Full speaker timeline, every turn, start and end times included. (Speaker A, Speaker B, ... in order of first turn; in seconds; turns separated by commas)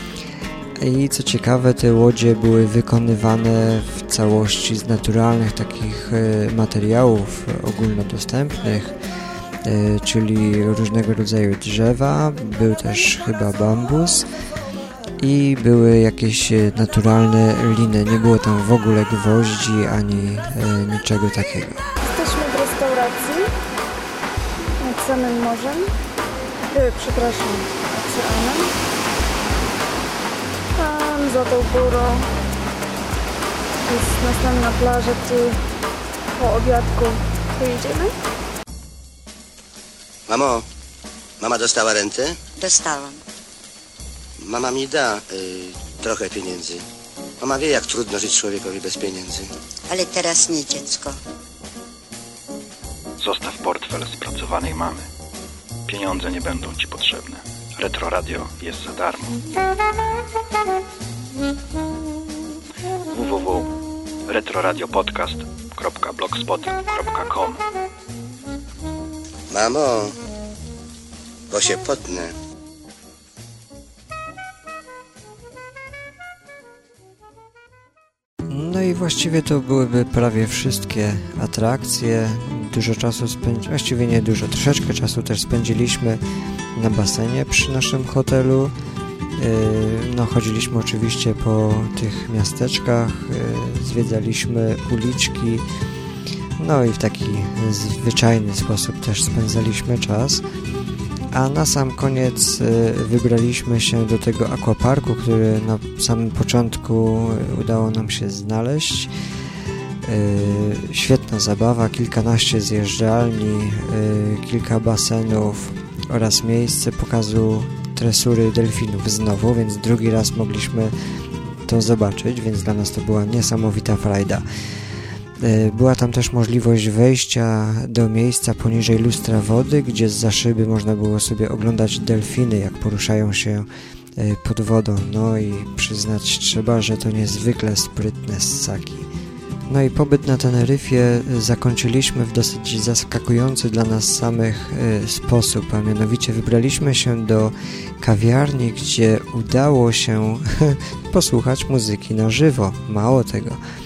Speaker A: 0.8-8.9, Speaker A: 9.6-14.2, Speaker A: 15.2-21.8, Speaker B: 22.0-23.5, Speaker B: 24.8-25.9, Speaker B: 26.7-28.7, Speaker B: 30.7-32.2, Speaker B: 33.8-35.6, Speaker B: 36.3-38.1, Speaker C: 40.3-40.6, Speaker C: 41.4-42.4, Speaker D: 42.6-43.2, Speaker C: 44.4-46.8, Speaker C: 47.4-49.5, Speaker D: 49.9-51.2, Speaker E: 53.2-55.1, Speaker E: 55.9-59.4, Speaker E: 63.1-63.7, Speaker E: 64.3-67.6, Speaker C: 69.5-70.1, Speaker C: 71.5-72.3, Speaker A: 78.5-86.2, Speaker A: 86.8-88.7, Speaker A: 89.4-95.6, Speaker A: 96.6-100.4, Speaker A: 101.3-109.1, Speaker A: 110.0-120.9, Speaker A: 121.7-124.4, Speaker A: 125.4-139.1, Speaker A: 139.7-153.6